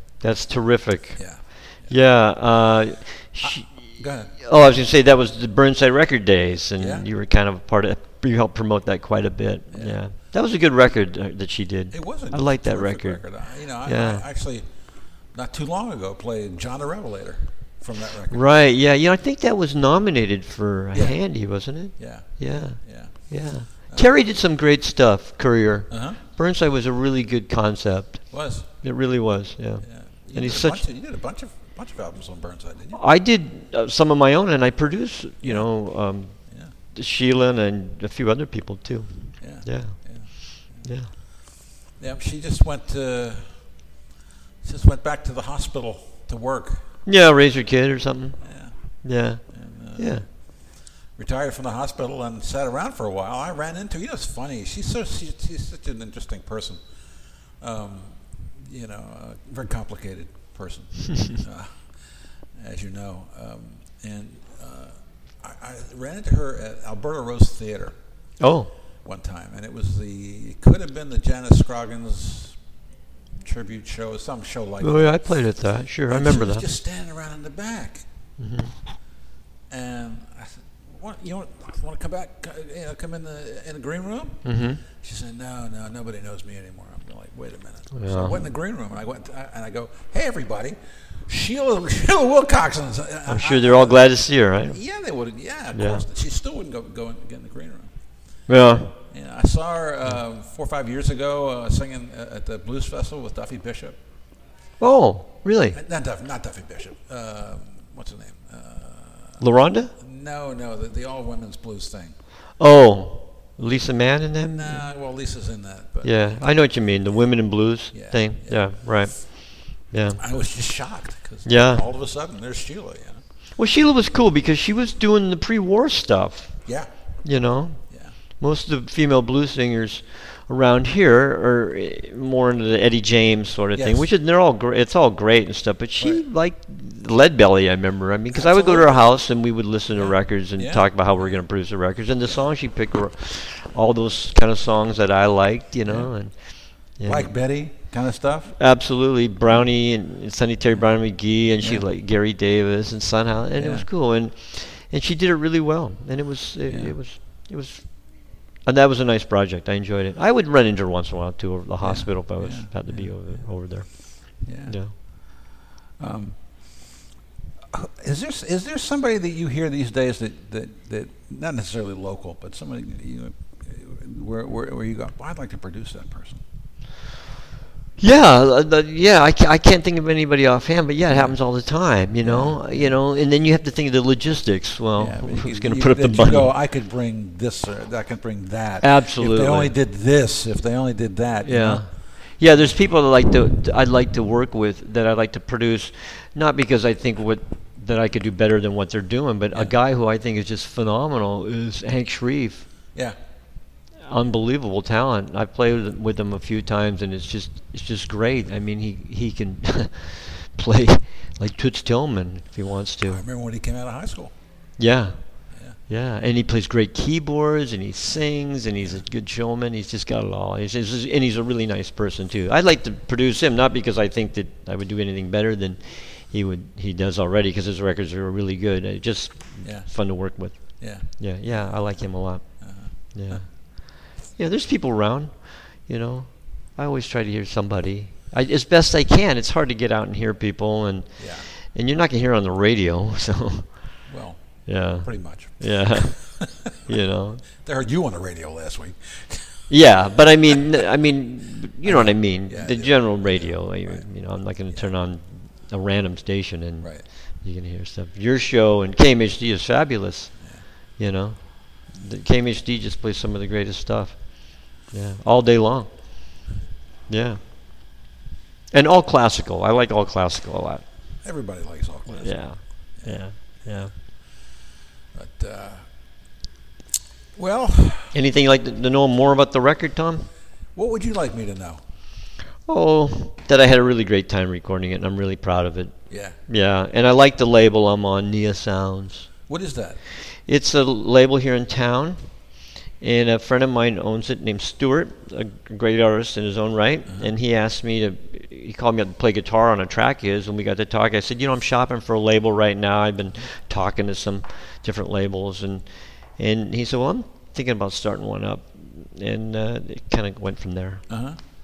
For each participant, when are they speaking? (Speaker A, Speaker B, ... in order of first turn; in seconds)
Speaker A: 0.2-1.2, 1.9-13.2, 13.8-14.2, 18.3-30.8, 32.9-36.4, 36.9-41.1, 47.0-48.4, 49.0-49.4, 50.0-50.2, 68.4-68.7, 74.8-76.6, 78.4-78.7, 84.4-84.8, 87.9-88.4, 93.3-94.8, 95.7-96.0, 98.5-98.9, 104.8-105.8, 109.4-109.9, 112.6-114.8, 116.0-119.2, 119.7-120.2, 121.5-121.8, 123.6-126.5, 127.2-127.8, 128.4-146.3, 146.9-147.3, 148.6-164.9, 178.0-186.5, 188.8-189.7, 191.4-202.7, 204.1-213.2, 214.8-215.2, 215.9-232.4, 233.1-243.9, 244.7-246.3, 246.9-247.4, 249.7-260.3, 261.0-265.9, 267.1-267.4, 268.7-270.8, 272.2-273.9, 278.1-280.3, 282.7-285.9, 286.5-289.3, 290.5-292.2, 293.0-311.0
Speaker B: 1.2-1.9, 3.4-4.3, 6.8-7.0, 9.7-10.0, 11.9-14.6, 15.3-18.4, 22.0-23.1, 23.9-24.2, 25.9-26.2, 28.3-28.6, 29.8-33.0, 35.4-35.7, 39.4-40.8, 42.0-43.5, 44.6-46.8, 48.4-48.7, 49.5-50.2, 51.1-56.8, 57.6-61.9, 62.5-67.9, 69.0-72.5, 73.4-75.2, 76.1-78.0, 79.7-90.8, 91.3-94.1, 94.7-97.9, 99.1-104.0, 105.7-109.4, 110.0-112.1, 114.5-116.4, 117.9-118.7, 120.2-123.2, 133.7-134.1, 138.3-139.1, 139.9-141.4, 145.8-146.1, 147.0-148.5, 153.6-153.9, 156.7-156.9, 161.8-163.4, 164.4-164.7, 166.0-166.4, 167.7-176.4, 181.1-181.4, 182.2-182.9, 185.0-191.8, 213.1-214.3, 229.6-229.9, 230.8-231.7, 232.6-233.4, 241.2-241.5, 244.1-244.4, 245.0-246.9, 247.6-249.6, 250.4-250.8, 251.8-254.0, 271.2-272.4, 275.1-275.8, 277.3-278.1, 280.7-281.8, 286.1-286.4, 289.5-290.0, 311.1-311.4